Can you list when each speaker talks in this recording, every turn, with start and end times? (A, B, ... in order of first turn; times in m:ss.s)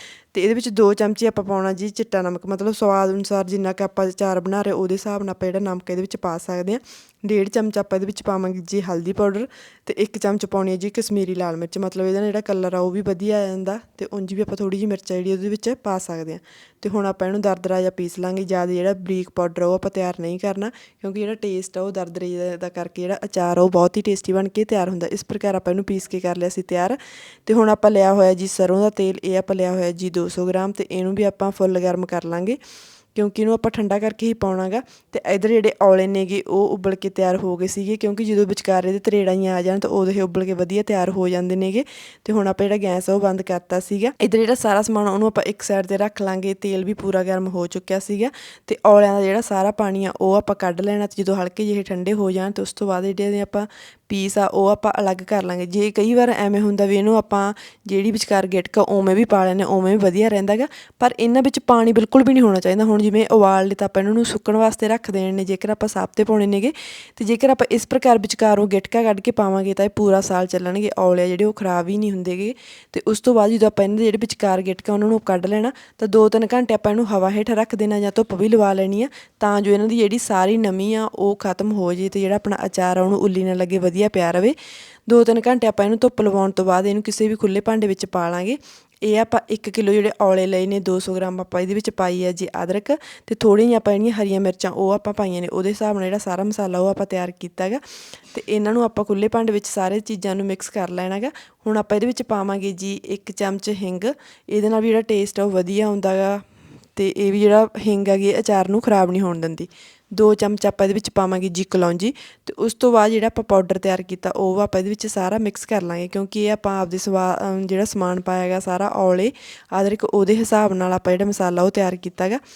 0:00.3-0:32.6 A
0:33.2-1:24.6 A
1:25.1-1:46.4 A
1:47.0-2:02.4 A